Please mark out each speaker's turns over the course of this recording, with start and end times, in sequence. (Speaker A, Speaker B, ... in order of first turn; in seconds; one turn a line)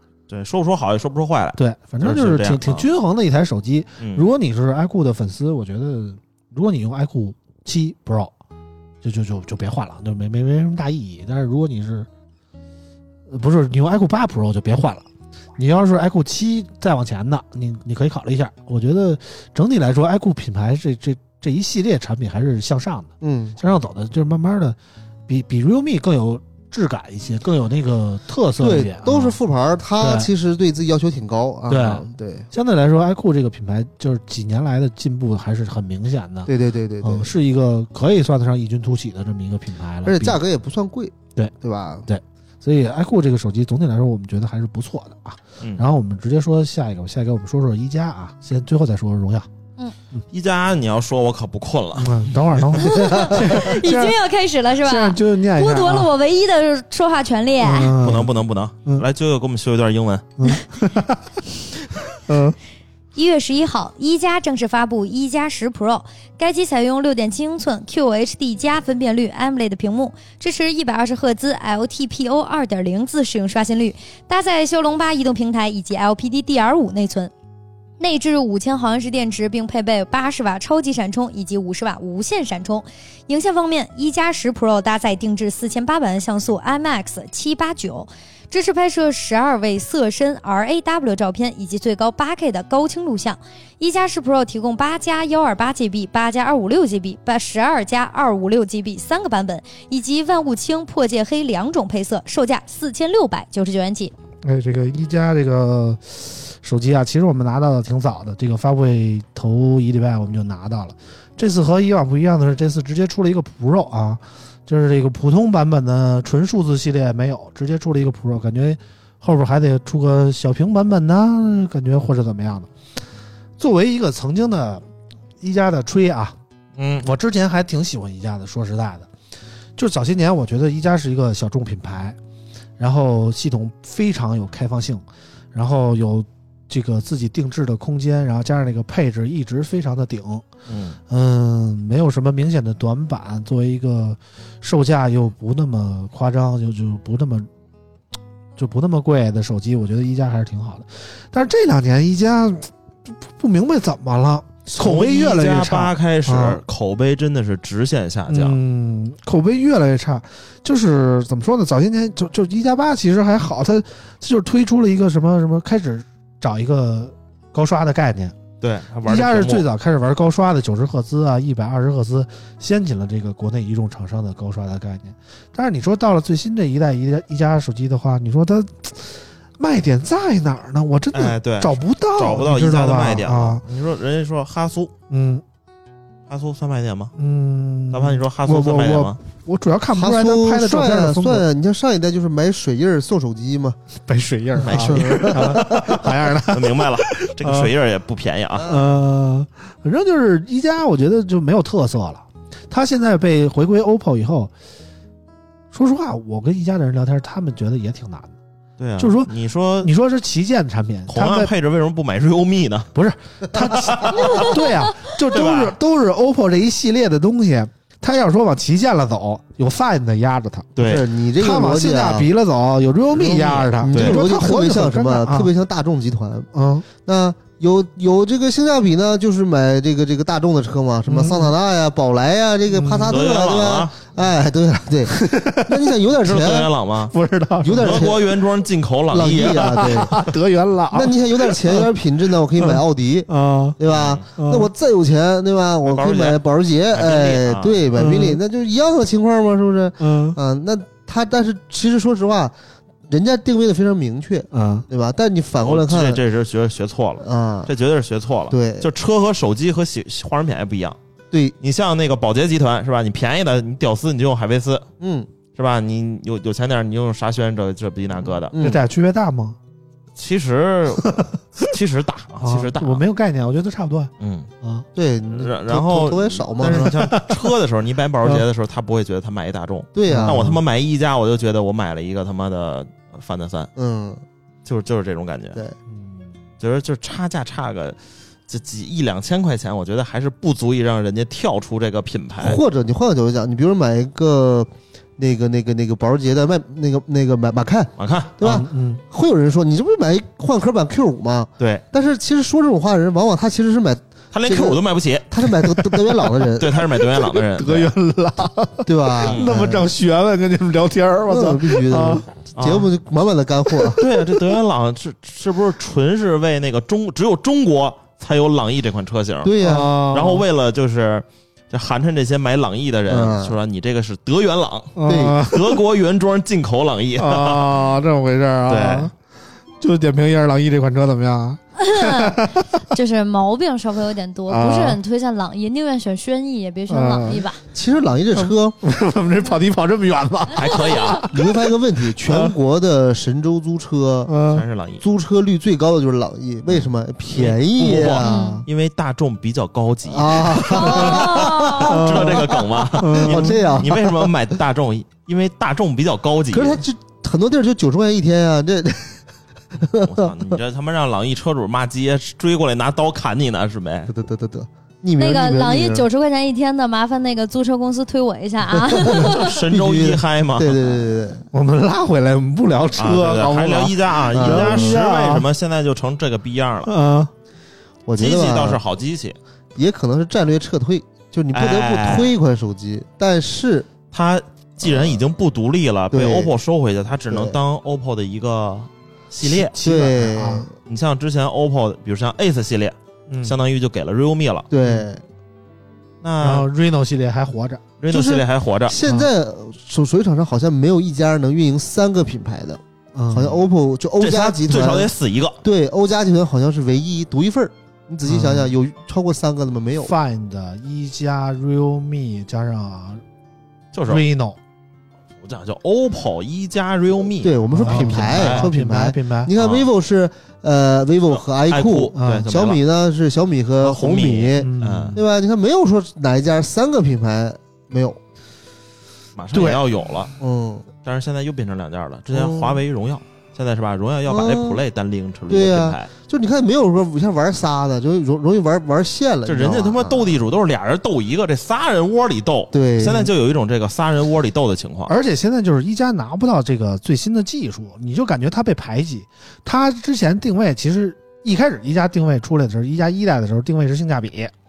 Speaker A: 0.3-2.9
Speaker B: 1.6-8.3
Speaker A: 4.0-4.3
Speaker B: 9.0-12.1
Speaker B: 13.3-15.1
Speaker B: 15.6-29.4
Speaker C: 23.2-23.6
Speaker C: 28.6-32.5
Speaker B: 30.0-30.3
Speaker B: 31.7-36.5
Speaker C: 36.5-37.3
Speaker B: 37.0-40.4
Speaker C: 40.0-42.1
Speaker B: 42.1-49.5
Speaker A: 50.3-52.8
Speaker B: 52.0-54.2
Speaker D: 52.8-58.0
Speaker B: 54.8-56.1
Speaker B: 57.6-58.3
Speaker A: 58.0-60.3
Speaker B: 60.4-61.2
Speaker B: 62.1-62.6
Speaker D: 63.1-77.3
Speaker D: 78.0-104.1
Speaker B: 104.4-122.7
Speaker B: 123.6-124.8
Speaker B: 125.4-126.4
Speaker A: 126.8-127.1
Speaker B: 127.0-129.1
Speaker B: 129.8-132.2
Speaker B: 132.8-140.4
Speaker A: 140.7-141.0
Speaker B: 141.1-147.5
Speaker B: 148.6-156.6
Speaker A: 154.7-158.6
Speaker B: 158.3-168.3
Speaker A: 168.6-169.7
Speaker B: 169.1-183.6
Speaker A: 181.1-184.9
Speaker B: 185.1-185.4
Speaker A: 186.3-187.1
Speaker B: 187.2-191.5
Speaker A: 187.9-189.2
Speaker C: 189.9-193.8
Speaker B: 194.1-197.7
Speaker A: 194.6-198.7
Speaker C: 194.7-195.9
Speaker C: 198.6-198.9
Speaker B: 198.6-204.5
Speaker B: 205.7-208.3
Speaker A: 208.8-209.9
Speaker B: 209.0-211.5
Speaker A: 211.1-212.9
Speaker B: 212.9-220.7
Speaker A: 213.8-214.6
Speaker A: 215.1-215.8
Speaker A: 220.8-221.1
Speaker C: 220.8-222.3
Speaker B: 221.4-225.5
Speaker C: 223.2-236.7
Speaker A: 223.3-224.2
Speaker B: 226.5-226.8
Speaker B: 231.1-231.6
Speaker B: 232.7-233.2
Speaker A: 233.1-234.1
Speaker B: 235.1-235.9
Speaker A: 236.2-237.1
Speaker B: 237.1-238.1
Speaker C: 237.6-238.3
Speaker A: 237.7-240.2
Speaker C: 239.1-240.2
Speaker B: 239.4-241.9
Speaker C: 240.9-252.5
Speaker B: 242.6-243.8
Speaker A: 243.9-244.3
Speaker B: 244.4-244.7
Speaker A: 245.8-246.4
Speaker A: 246.9-247.8
Speaker B: 247.9-248.4
Speaker B: 250.0-250.4
Speaker C: 253.1-256.2
Speaker B: 254.5-254.9
Speaker A: 255.6-261.0
Speaker C: 257.2-257.7
Speaker C: 258.5-258.9
Speaker A: 261.6-264.9
Speaker C: 265.0-265.3
Speaker A: 265.5-268.6
Speaker C: 268.5-268.8
Speaker B: 268.6-269.6
Speaker A: 270.2-273.0
Speaker B: 272.4-274.1
Speaker A: 274.2-274.5
Speaker B: 274.6-274.9
Speaker C: 275.0-276.9
Speaker A: 275.3-283.7
Speaker B: 276.6-277.4
Speaker C: 279.9-280.6
Speaker B: 280.1-280.6
Speaker C: 283.8-284.2
Speaker A: 284.6-285.6
Speaker B: 285.9-286.2
Speaker A: 286.6-292.6
Speaker C: 292.4-304.8
Speaker A: 298.0-298.4
Speaker B: 298.4-299.0
Speaker A: 304.3-305.9
Speaker C: 305.3-306.8
Speaker A: 306.6-307.9
Speaker B: 307.0-312.3
Speaker C: 308.9-309.9
Speaker A: 309.2-309.6
Speaker C: 311.3-314.0
Speaker A: 312.6-312.9
Speaker B: 313.7-314.3
Speaker A: 314.0-319.6
Speaker C: 319.4-320.0
Speaker B: 319.6-320.4
Speaker A: 320.1-327.7
Speaker C: 323.1-323.6
Speaker B: 325.0-325.8
Speaker C: 325.1-325.4
Speaker B: 327.2-329.1
Speaker A: 328.7-329.1
Speaker B: 329.8-332.8
Speaker D: 331.8-337.6
Speaker B: 334.5-335.0
Speaker B: 336.9-337.4
Speaker C: 337.7-338.8
Speaker B: 338.3-342.5
Speaker A: 340.5-341.3
Speaker C: 341.3-344.3
Speaker B: 344.3-344.6
Speaker A: 344.5-345.0
Speaker C: 345.0-348.7
Speaker A: 346.7-356.8
Speaker D: 348.2-348.6
Speaker C: 350.1-354.3
Speaker B: 350.8-351.2
Speaker D: 351.0-351.9
Speaker B: 351.8-353.9
Speaker C: 356.5-359.2
Speaker C: 359.7-360.3
Speaker A: 359.9-364.1
Speaker C: 364.1-366.1
Speaker D: 365.2-369.6
Speaker C: 368.8-371.4
Speaker A: 369.2-371.1
Speaker B: 371.5-375.5
Speaker A: 373.0-376.9
Speaker C: 374.3-375.0
Speaker B: 376.9-377.3
Speaker C: 378.1-378.8
Speaker A: 378.2-379.4
Speaker C: 379.8-383.9
Speaker A: 381.5-382.4
Speaker A: 384.1-389.8
Speaker C: 384.8-385.2
Speaker C: 386.1-386.5
Speaker C: 387.3-387.6
Speaker B: 389.4-390.7
Speaker C: 389.8-390.7
Speaker A: 390.9-394.7
Speaker B: 393.3-393.6
Speaker C: 394.7-395.2
Speaker A: 396.2-396.7
Speaker B: 396.4-397.8
Speaker A: 398.0-399.0
Speaker C: 398.1-405.1
Speaker B: 399.0-399.3
Speaker B: 403.1-403.6
Speaker A: 404.2-405.6
Speaker C: 405.6-410.1
Speaker B: 408.2-408.7
Speaker B: 410.0-413.2
Speaker A: 413.9-414.2
Speaker B: 414.1-414.6
Speaker A: 415.4-418.7
Speaker C: 417.4-428.2
Speaker B: 417.7-419.5
Speaker A: 419.6-419.9
Speaker A: 421.3-422.8
Speaker B: 422.2-422.5
Speaker A: 423.8-425.2
Speaker B: 424.6-425.2
Speaker A: 429.4-430.3
Speaker B: 429.5-429.8
Speaker C: 430.4-430.9
Speaker A: 431.0-436.1
Speaker C: 432.3-432.8
Speaker C: 434.3-434.8
Speaker C: 435.5-440.4
Speaker A: 439.5-445.1
Speaker C: 442.7-443.3
Speaker B: 445.1-454.5